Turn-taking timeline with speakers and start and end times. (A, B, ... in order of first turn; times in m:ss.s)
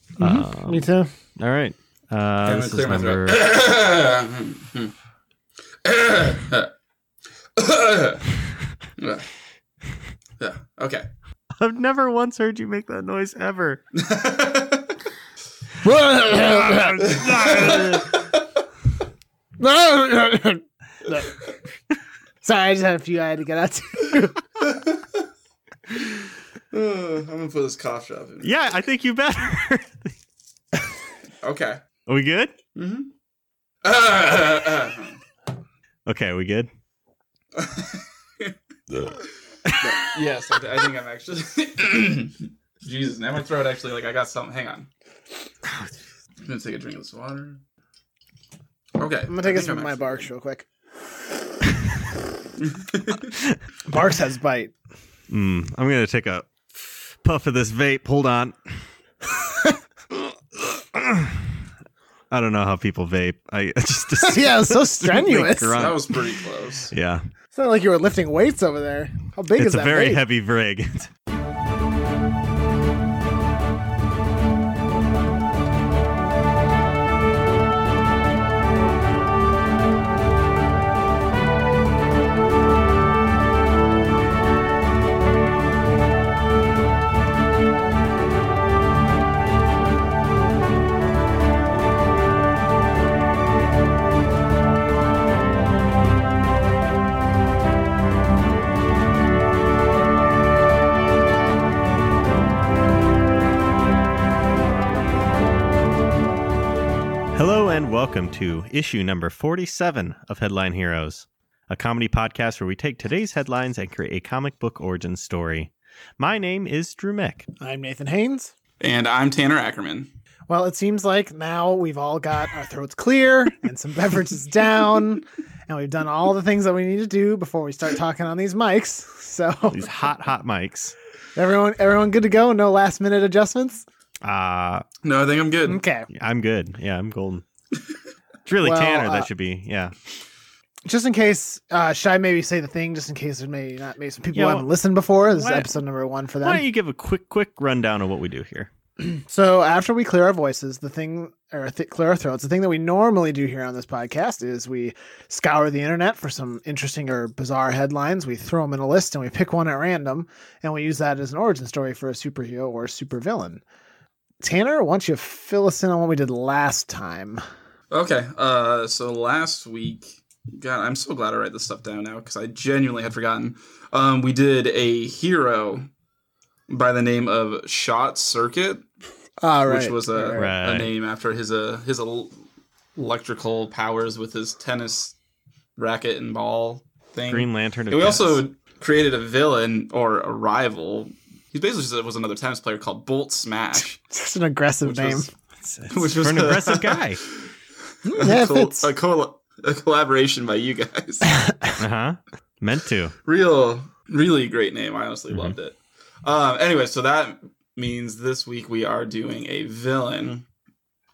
0:00.2-0:01.1 A
0:00.2-0:03.4 B
0:02.4-0:04.9 C
0:05.8-0:06.7 C
0:07.6-0:08.2 C
0:09.0-0:09.3 C
0:10.4-0:11.1 C
0:11.6-0:13.8 B
0:13.9-0:15.0 C
0:15.8-0:18.1 A
0:17.0-0:18.6 C
0:19.6-0:21.5 A
0:22.4-0:24.4 A
0:24.6-0:25.2 C
0:26.7-0:28.7 C
0:28.4-0:30.1 B
0:31.4-0:31.8 C
0:32.1-0:32.5 B
0:32.8-0:33.1 C
0:33.8-0:35.2 C
0:36.1-0:36.7 B
0:37.6-0:38.6 C
0:39.6-0:40.0 B
0:40.0-0:44.9 C
0:45.6-0:45.9 B
0:46.4-0:47.6 C
0:49.0-0:50.3 C
0:49.3-0:50.7 A
0:52.6-0:53.4 C
0:53.4-0:53.6 B
0:53.9-0:54.7 A
0:55.3-0:58.8 B
1:00.9-1:01.6 B
1:02.3-1:06.2 B
1:04.2-1:06.0 A
1:05.7-1:06.9 C
1:06.9-1:07.2 B
1:07.5-1:10.2 A
1:09.6-1:11.1 B
1:47.3-1:57.5 B
1:57.6-1:58.5 A
1:58.8-2:00.1 C
2:00.5-2:09.9 A
2:09.7-2:11.0 B
2:11.4-2:13.8 A
2:14.2-2:14.8 B
2:15.0-2:15.8 C
2:15.7-2:16.1 A
2:16.1-2:17.4 B
2:18.5-2:20.0 B
2:18.6-2:19.3 A
2:20.9-2:26.6 A
2:24.3-2:24.7 B
2:25.3-2:25.7 B
2:26.4-2:28.7 B
2:29.0-2:43.6 A
2:44.4-2:47.4 A
2:47.9-2:55.9 C
2:56.7-2:58.8 C
2:59.4-3:00.5 A
2:59.7-3:02.4 C
3:00.4-3:00.9 B
3:03.0-3:05.2 C
3:05.8-3:14.0 C
3:07.3-3:08.4 B
3:14.0-3:15.3 A
3:14.8-3:15.3 C
3:15.6-3:17.2 B
3:15.9-3:17.5 C
3:18.1-3:18.9 A
3:18.2-3:21.3 C
3:21.3-3:21.8 A
3:21.8-3:23.1 B
3:23.2-3:30.5 C